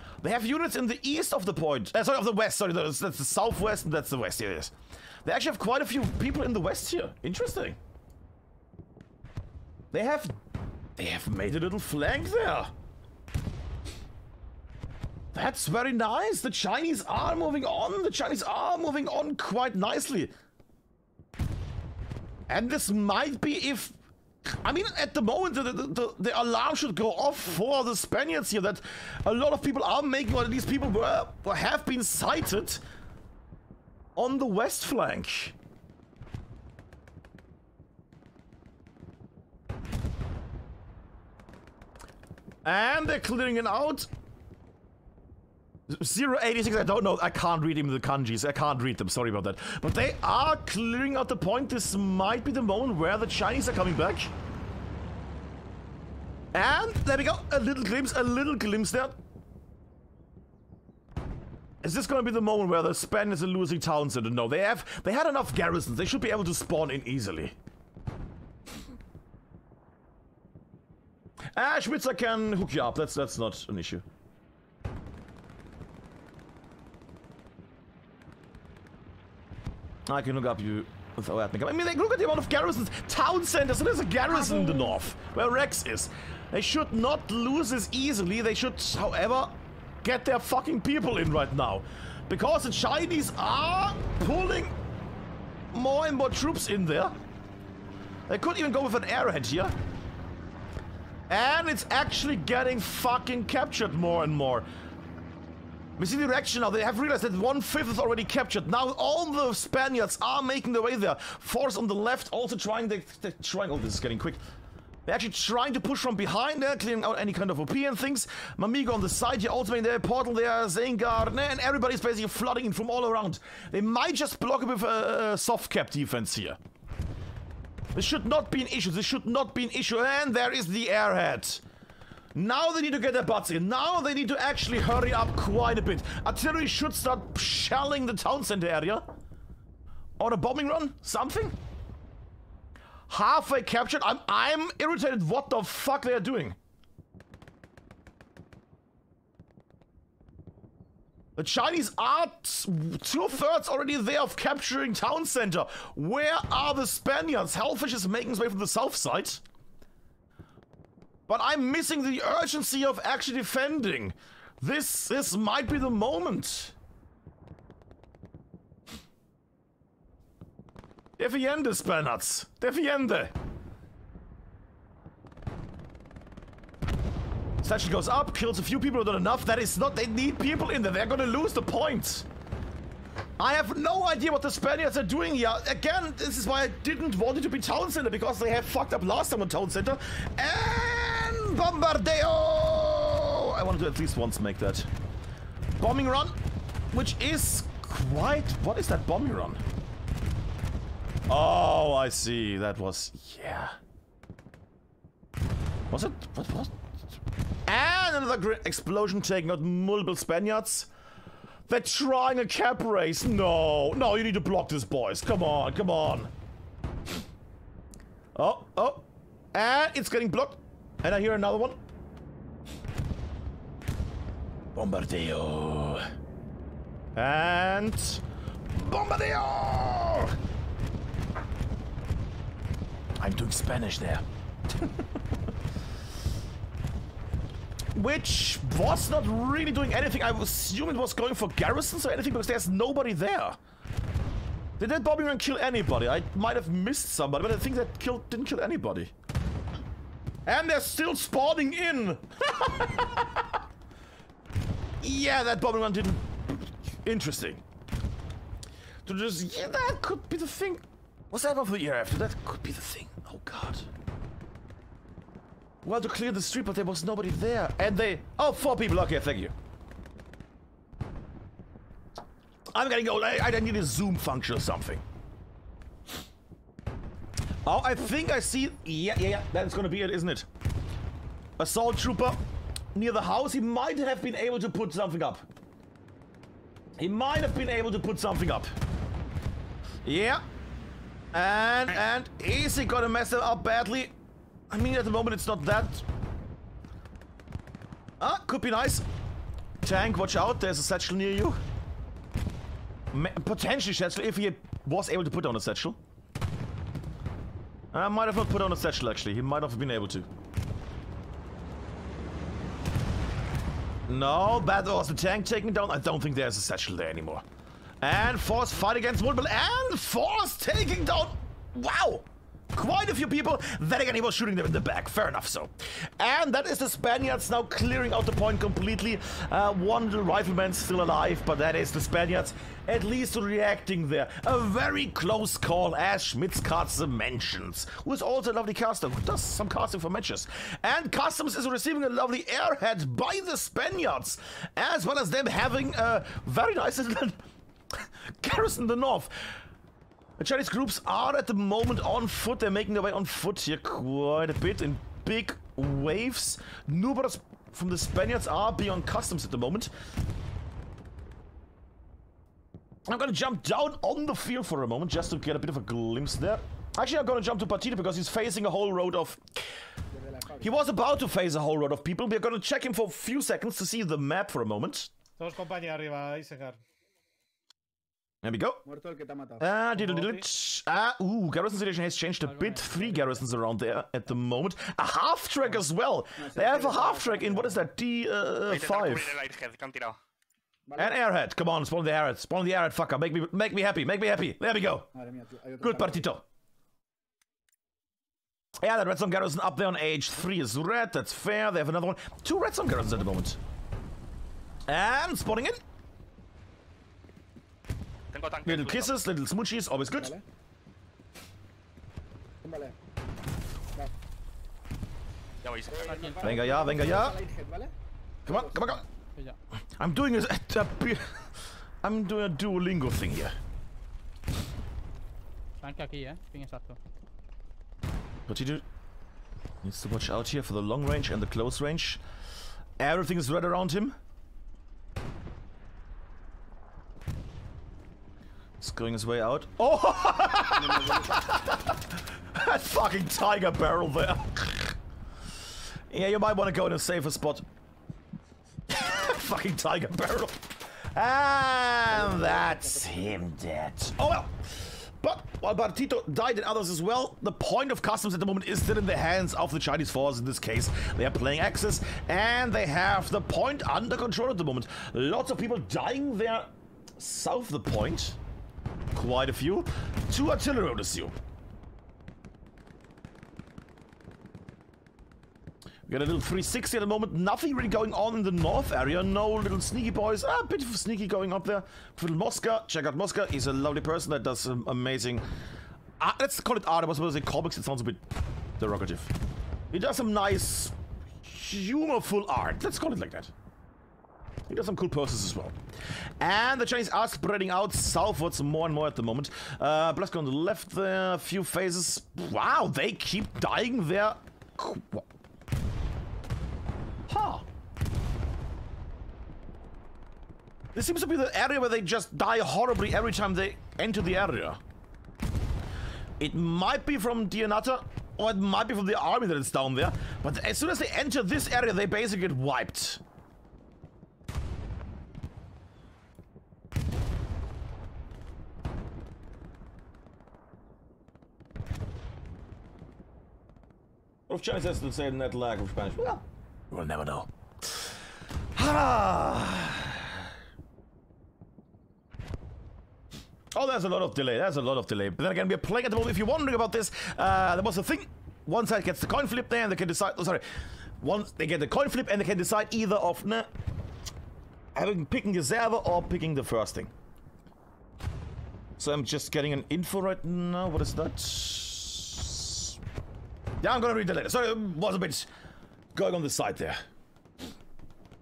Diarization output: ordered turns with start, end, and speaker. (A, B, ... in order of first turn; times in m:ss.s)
0:00.2-0:04.7 A
0:05.2-0:07.8 A
0:09.9-0:10.4 A
0:11.0-0:12.7 A
0:15.3-0:20.3 A
0:22.5-0:32.8 A
0:34.2-0:35.5 A
0:42.6-0:44.1 A
0:45.9-0:54.3 A
0:56.5-0:59.2 A
1:01.8-1:07.5 A
1:11.5-1:14.0 A
1:20.0-1:34.7 A
1:35.7-1:37.1 A
1:38.3-1:39.7 A
1:41.3-1:44.7 A
1:46.0-1:54.4 A
1:55.0-2:06.6 A
2:07.9-2:11.6 A
2:12.3-2:19.1 A
2:20.2-2:21.6 A
2:23.1-2:26.6 A
2:31.4-2:39.4 A
2:41.3-2:46.7 A
2:51.2-2:53.3 A
2:57.6-3:02.2 A
3:03.4-3:14.9 A
3:15.8-3:16.4 A
3:16.9-3:19.6 A
3:21.3-3:23.8 A
3:25.9-3:26.7 A
3:27.7-3:30.9 A
3:31.7-3:36.3 A
3:38.3-3:41.8 A
3:44.7-3:46.1 A
3:47.2-3:50.4 A
3:53.2-3:54.2 A
3:57.9-4:03.6 A
4:04.8-4:09.1 A
4:10.4-4:13.4 A
4:15.0-4:17.6 A
4:19.0-4:23.9 A
4:25.8-4:29.5 A
4:32.7-4:35.0 A
4:37.6-4:40.5 A
4:41.6-4:42.4 A
4:42.9-4:45.4 A
4:47.0-4:48.7 A
4:50.0-4:50.4 A
4:51.3-4:54.1 A
4:54.7-4:56.0 A
4:58.2-4:59.0 A
4:59.8-5:01.6 A
5:03.1-5:06.0 A
5:07.9-5:10.3 A
5:14.1-5:17.4 A
5:18.0-5:47.4 A
5:48.0-5:49.6 A
5:50.4-5:59.9 A
6:03.1-6:09.4 A
6:10.1-6:10.8 B
6:10.6-6:15.1 A
6:15.4-6:16.8 C
6:18.4-6:18.8 A
6:18.8-6:19.7 B
6:19.6-6:29.4 A
6:19.9-6:20.4 C
6:22.4-6:23.4 D
6:26.4-6:27.9 B
6:28.7-6:30.2 E
6:30.9-6:31.2 B
6:31.0-6:35.1 A
6:35.1-6:36.3 B
6:35.8-6:36.4 A
6:38.8-6:43.6 A
6:44.9-6:45.8 A
6:48.3-6:49.2 E
6:48.6-6:50.3 A
6:50.2-6:50.4 B
6:52.6-6:53.0 B
6:55.6-6:56.3 E
6:55.9-6:57.9 B
6:56.0-6:56.5 D
6:56.4-6:57.4 A
6:58.4-6:59.0 A
6:58.5-6:58.8 B
6:58.9-6:59.6 D
7:00.0-7:01.5 A
7:02.0-7:03.5 A
7:05.8-7:07.0 D
7:08.5-7:08.8 A
7:09.8-7:12.2 A
7:13.0-7:14.2 A
7:18.8-7:25.0 A
7:20.6-7:21.5 B
7:26.1-7:27.6 A
7:28.9-7:48.4 A
7:32.1-7:33.4 B
7:49.1-7:51.3 A
7:56.1-8:05.4 A
8:06.2-8:08.2 A
8:08.8-8:09.3 A
8:09.9-8:13.5 A
8:14.7-8:15.8 A
8:16.4-8:25.2 A
8:27.3-8:27.6 A
8:30.9-8:34.8 A
8:36.4-8:43.2 A
8:54.5-8:58.1 A
8:58.7-9:00.3 A
9:03.7-9:10.6 A
9:11.2-9:13.7 A
9:14.9-9:17.1 A
9:19.0-9:22.9 A
9:23.8-9:25.5 A
9:26.1-9:27.0 A